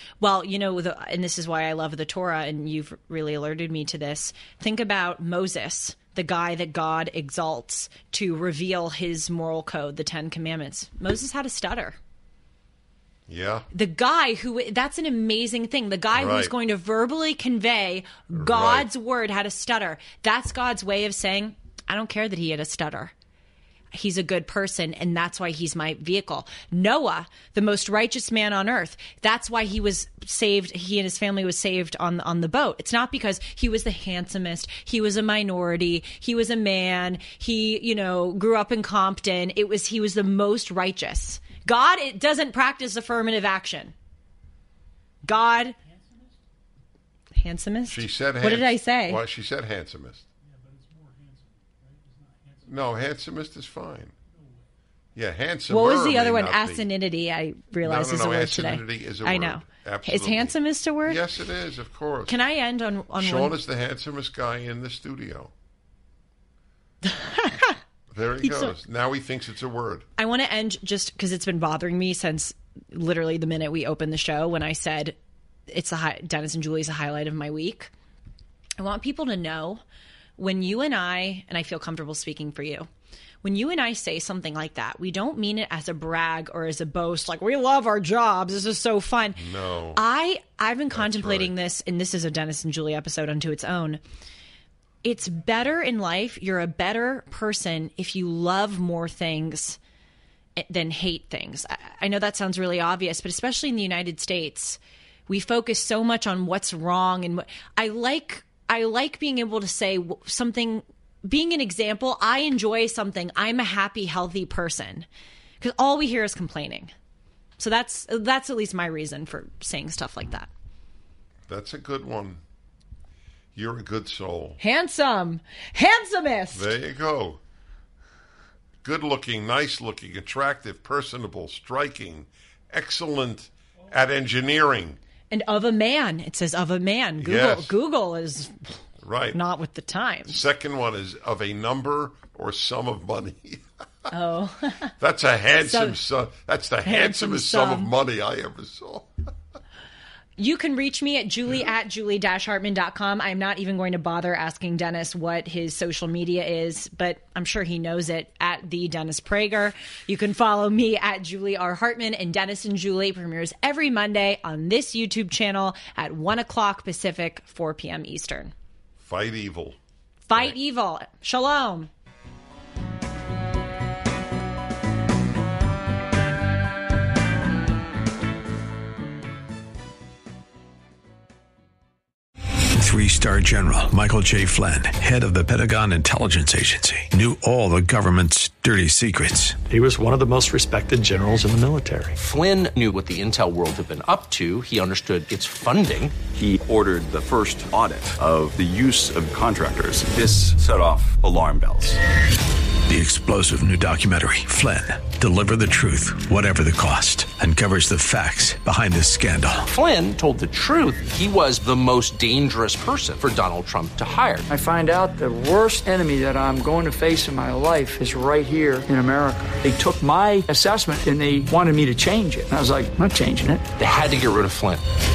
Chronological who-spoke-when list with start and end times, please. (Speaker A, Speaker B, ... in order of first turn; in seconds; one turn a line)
Speaker A: 0.2-12.0
Speaker B: 13.3-13.7
Speaker A: 13.7-23.1
Speaker B: 16.1-16.5
Speaker B: 18.3-18.9
Speaker A: 23.9-43.9
Speaker A: 45.2-45.8
Speaker A: 47.4-49.2
Speaker B: 47.9-50.3
Speaker B: 52.6-54.1
Speaker B: 55.1-56.9
Speaker A: 55.7-61.2
Speaker B: 57.8-62.4
Speaker A: 62.3-63.5
Speaker B: 63.1-65.5
Speaker A: 67.0-67.8
Speaker B: 68.1-70.1
Speaker A: 68.4-68.8
Speaker A: 70.2-75.2
Speaker A: 75.7-77.9
Speaker A: 78.8-79.8
Speaker A: 80.4-82.9
Speaker A: 83.4-94.0
Speaker B: 89.4-90.0
Speaker B: 90.9-91.5
Speaker A: 95.0-99.8
Speaker A: 100.6-115.1
Speaker A: 115.6-116.9
Speaker A: 117.6-120.5
Speaker B: 121.5-122.4
Speaker B: 123.5-124.6
Speaker A: 124.6-126.7
Speaker B: 126.5-127.4
Speaker B: 128.8-135.0
Speaker A: 135.3-138.8
Speaker B: 137.2-137.7
Speaker B: 139.0-139.4
Speaker A: 139.3-140.4
Speaker B: 140.3-144.1
Speaker A: 144.1-144.9
Speaker B: 145.0-149.1
Speaker A: 145.5-146.0
Speaker A: 146.8-147.9
Speaker A: 150.4-168.5
Speaker B: 169.0-169.8
Speaker A: 170.3-171.9
Speaker C: 182.8-189.6
Speaker D: 189.7-192.2
Speaker E: 192.2-196.1
Speaker F: 196.3-202.0
Speaker C: 202.9-209.7
Speaker E: 209.7-214.4
Speaker G: 214.5-223.7
Speaker E: 223.8-224.8